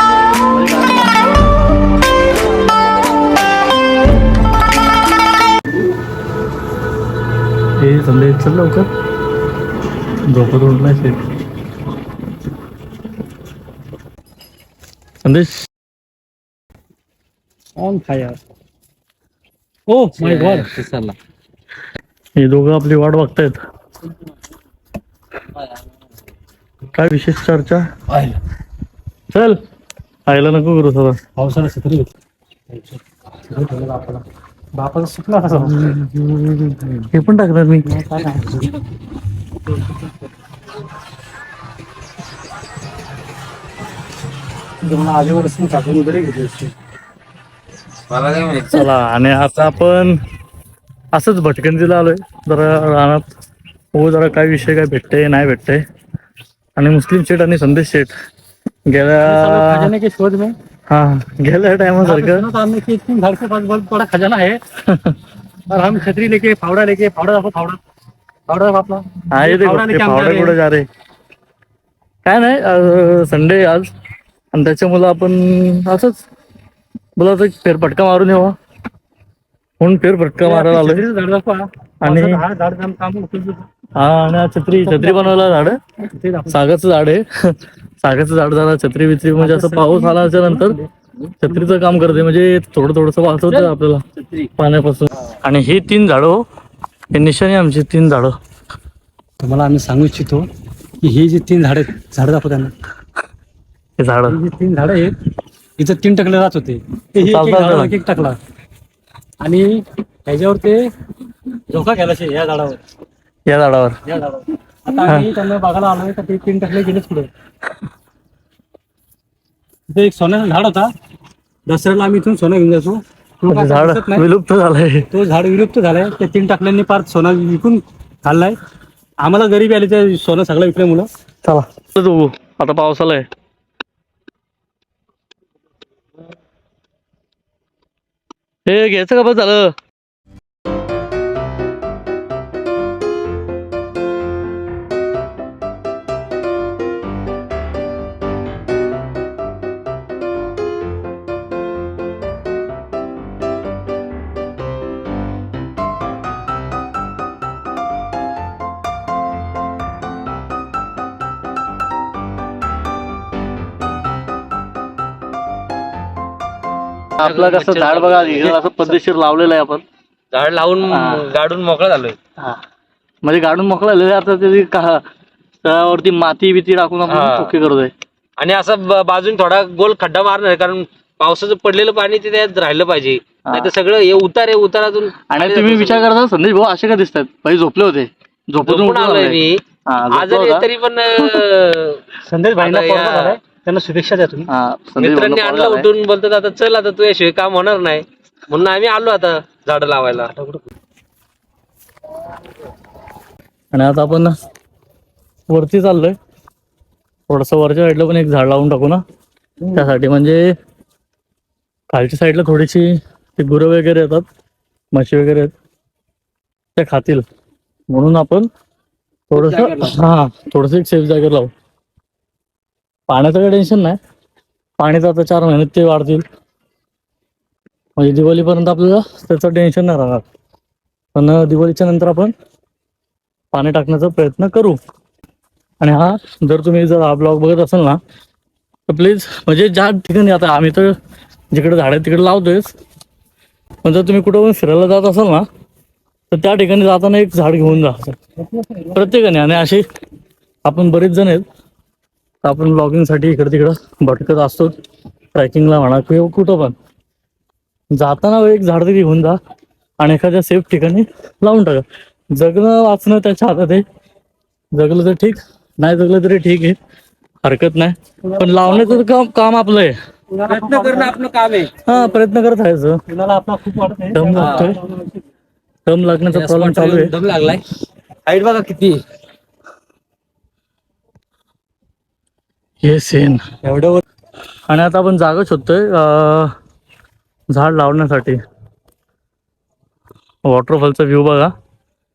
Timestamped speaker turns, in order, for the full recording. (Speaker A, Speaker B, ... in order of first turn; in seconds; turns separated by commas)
Speaker A: 0.6-1.0, Speaker A: 7.8-8.9, Speaker A: 10.3-11.2, Speaker A: 15.2-15.6, Speaker B: 17.8-18.4, Speaker B: 19.9-20.7, Speaker C: 20.2-21.2, Speaker A: 22.4-23.6, Speaker A: 26.9-27.9, Speaker C: 28.1-28.4, Speaker A: 29.3-29.6, Speaker A: 30.3-31.2, Speaker B: 31.4-32.1, Speaker B: 32.7-35.9, Speaker A: 35.6-37.9, Speaker B: 37.9-38.8, Speaker B: 44.8-46.7, Speaker C: 48.1-48.9, Speaker A: 48.7-50.2, Speaker A: 51.1-53.2, Speaker A: 53.9-55.8, Speaker A: 56.8-58.1, Speaker A: 58.9-59.9, Speaker B: 59.2-60.5, Speaker A: 60.9-62.5, Speaker B: 62.0-64.6, Speaker A: 64.8-65.2, Speaker B: 65.7-67.8, Speaker B: 68.5-70.6, Speaker A: 69.3-70.9, Speaker A: 72.2-73.9, Speaker A: 74.5-76.2, Speaker A: 77.2-78.5, Speaker A: 79.8-81.0, Speaker B: 80.4-83.6, Speaker A: 82.0-82.4, Speaker A: 84.0-85.8, Speaker B: 84.8-86.6, Speaker A: 86.5-94.0, Speaker B: 89.4-90.9, Speaker B: 91.4-91.8, Speaker B: 93.5-94.4, Speaker A: 94.6-96.4, Speaker A: 97.1-98.3, Speaker B: 99.4-100.5, Speaker B: 101.0-102.7, Speaker A: 104.0-104.4, Speaker B: 104.3-105.2, Speaker B: 105.8-108.4, Speaker A: 107.2-108.0, Speaker B: 109.4-110.8, Speaker B: 111.7-112.8, Speaker A: 113.5-114.0, Speaker B: 114.1-117.3, Speaker B: 119.9-120.9, Speaker B: 121.7-124.3, Speaker A: 123.5-125.1, Speaker B: 125.1-128.6, Speaker B: 129.2-131.1, Speaker A: 131.4-133.3, Speaker A: 138.7-139.7, Speaker A: 167.2-169.8, Speaker C: 167.2-168.6, Speaker C: 170.3-172.2, Speaker A: 170.9-171.2, Speaker A: 173.2-175.0, Speaker A: 175.6-177.9, Speaker C: 177.1-177.6, Speaker C: 178.4-186.1, Speaker A: 185.3-191.3, Speaker C: 188.6-189.6, Speaker C: 190.1-192.0, Speaker B: 192.2-194.5, Speaker C: 192.6-193.4, Speaker A: 194.5-195.9, Speaker C: 195.0-200.4, Speaker B: 200.4-200.6, Speaker A: 203.7-204.3, Speaker A: 205.5-206.2, Speaker A: 207.3-209.0, Speaker A: 209.7-210.5, Speaker A: 211.9-214.2, Speaker A: 214.9-215.5, Speaker A: 216.8-217.2, Speaker A: 217.9-218.5, Speaker A: 219.3-221.5, Speaker C: 219.3-220.0, Speaker A: 223.1-224.0, Speaker A: 224.8-226.2, Speaker A: 228.0-230.2, Speaker A: 231.2-232.3, Speaker A: 233.5-234.8, Speaker A: 235.8-238.0, Speaker A: 238.9-240.9, Speaker A: 241.5-242.7, Speaker A: 243.8-245.4, Speaker A: 246.3-248.2, Speaker A: 248.8-249.8, Speaker A: 250.7-251.4, Speaker A: 252.4-254.7, Speaker A: 255.3-256.8, Speaker A: 257.9-259.4, Speaker A: 260.0-263.8, Speaker A: 264.8-266.8, Speaker A: 267.4-269.9, Speaker B: 268.2-269.0, Speaker B: 270.3-271.1, Speaker C: 270.5-271.8, Speaker A: 271.8-273.0, Speaker B: 273.1-275.2, Speaker A: 274.1-274.8, Speaker C: 274.3-274.8, Speaker A: 275.9-277.1, Speaker C: 276.3-277.6, Speaker C: 278.2-279.0, Speaker A: 282.8-283.6, Speaker A: 284.7-286.5, Speaker A: 287.5-288.4, Speaker A: 290.4-291.5